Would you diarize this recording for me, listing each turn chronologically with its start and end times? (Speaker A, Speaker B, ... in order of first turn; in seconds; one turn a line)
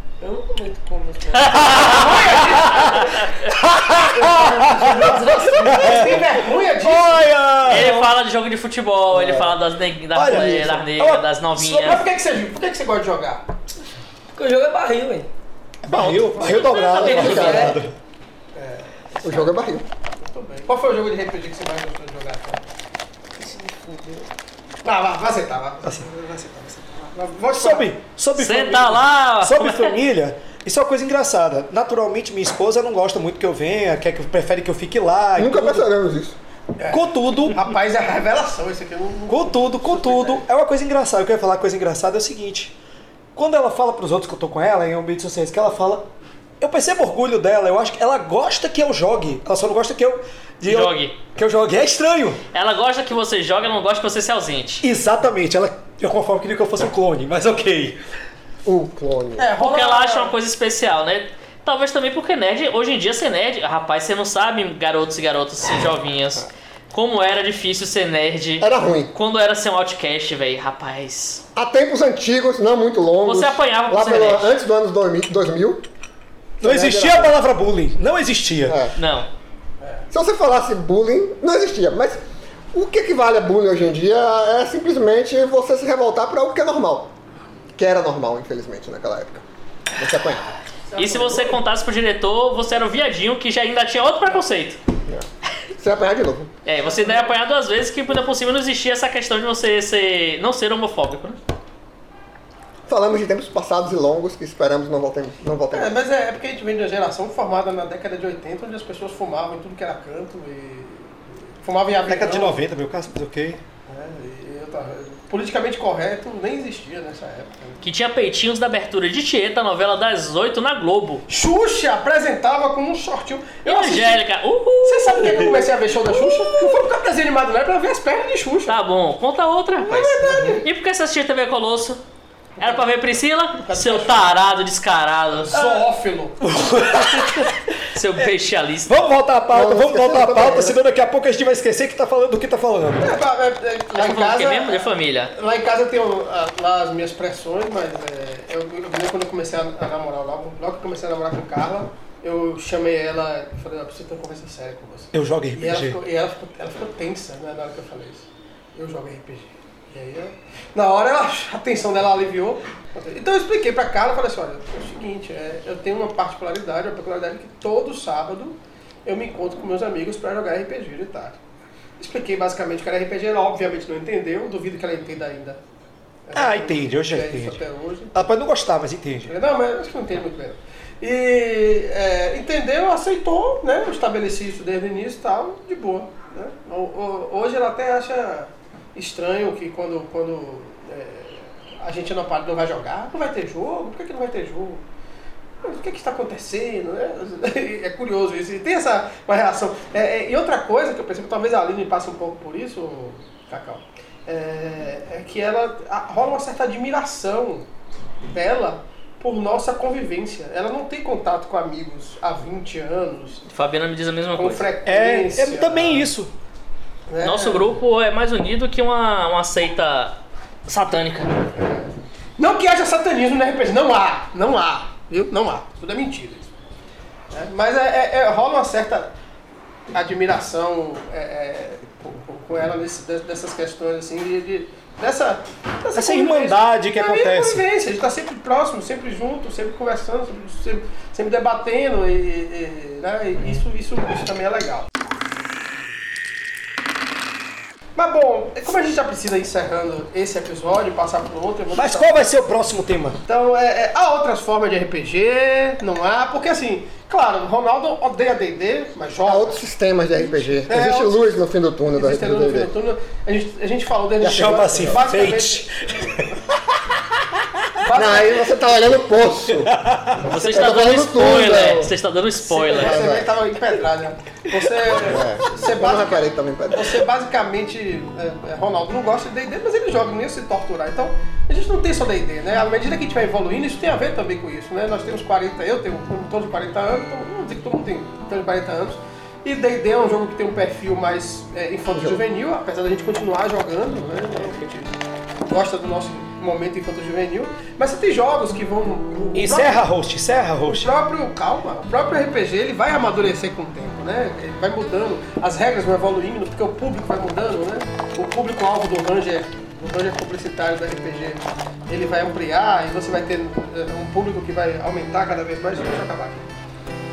Speaker A: 0.2-2.3
Speaker B: 1.3-3.5
Speaker C: 1.5-3.2
Speaker D: 2.3-2.9
Speaker D: 3.4-8.1
Speaker C: 4.1-7.3
Speaker A: 5.0-6.1
Speaker B: 7.7-12.0
Speaker E: 9.1-9.6
Speaker D: 10.1-11.9
Speaker E: 10.3-10.7
Speaker C: 11.8-13.4
Speaker A: 14.3-15.3
Speaker D: 15.8-17.9
Speaker B: 16.4-17.7
Speaker A: 16.9-17.8
Speaker E: 17.0-17.7
Speaker C: 18.5-19.6
Speaker E: 19.2-19.9
Speaker C: 20.1-22.6
Speaker A: 23.4-24.3
Speaker C: 24.8-27.9
Speaker D: 27.5-35.9
Speaker B: 28.4-29.9
Speaker E: 35.4-36.4
Speaker C: 36.8-40.4
Speaker D: 36.9-37.7
Speaker D: 39.3-42.7
Speaker D: 43.4-46.0
Speaker D: 46.6-52.4
Speaker B: 50.6-51.1
Speaker B: 52.5-54.8
Speaker D: 54.8-58.0
Speaker E: 58.6-59.5
Speaker C: 59.4-60.3
Speaker B: 59.6-71.4
Speaker E: 68.6-69.1
Speaker E: 71.5-75.9
Speaker B: 73.2-74.6
Speaker E: 76.6-77.3
Speaker D: 76.6-78.8
Speaker E: 78.7-78.9
Speaker B: 79.0-79.3
Speaker E: 80.1-82.2
Speaker E: 82.7-87.1
Speaker E: 87.8-89.4
Speaker E: 90.0-90.5
Speaker C: 90.9-91.6
Speaker B: 91.0-94.8
Speaker E: 95.8-96.5
Speaker B: 96.6-101.4
Speaker C: 96.8-97.3
Speaker E: 102.9-106.0
Speaker C: 105.7-112.6
Speaker D: 112.0-113.6
Speaker C: 113.9-117.8
Speaker B: 117.8-121.2
Speaker C: 121.3-124.2
Speaker B: 123.6-125.6
Speaker C: 124.8-128.8
Speaker B: 128.7-132.0
Speaker C: 129.8-130.6
Speaker E: 130.2-130.6
Speaker C: 132.6-132.8
Speaker B: 132.6-135.5
Speaker C: 133.5-134.3
Speaker C: 135.4-136.4
Speaker D: 135.5-135.8
Speaker D: 136.4-137.6
Speaker B: 137.2-138.9
Speaker D: 138.9-143.2
Speaker E: 139.5-140.8
Speaker C: 143.0-171.4
Speaker B: 143.9-145.3
Speaker D: 155.1-156.0
Speaker C: 172.0-175.6
Speaker C: 176.2-178.1
Speaker D: 176.3-177.6
Speaker D: 178.1-179.3
Speaker C: 179.2-194.8
Speaker C: 195.6-207.7
Speaker C: 208.3-213.4
Speaker B: 213.5-214.7
Speaker C: 214.3-216.1
Speaker D: 214.8-216.3
Speaker C: 217.1-217.7
Speaker B: 217.2-221.6
Speaker C: 221.6-226.5
Speaker C: 227.3-229.1
Speaker C: 229.9-244.9
Speaker D: 235.9-237.6
Speaker C: 247.9-252.1
Speaker D: 251.7-253.2
Speaker C: 253.2-259.6
Speaker E: 259.2-262.7
Speaker C: 260.7-261.3
Speaker C: 261.9-266.2
Speaker E: 264.2-265.0
Speaker D: 264.2-266.2
Speaker C: 267.8-268.5
Speaker E: 267.9-269.8
Speaker D: 269.6-270.2
Speaker B: 270.2-273.0
Speaker E: 270.3-271.9
Speaker C: 272.5-299.8
Speaker E: 272.6-273.3
Speaker E: 274.9-277.0
Speaker E: 291.9-292.2
Speaker D: 299.3-300.9
Speaker C: 300.6-316.5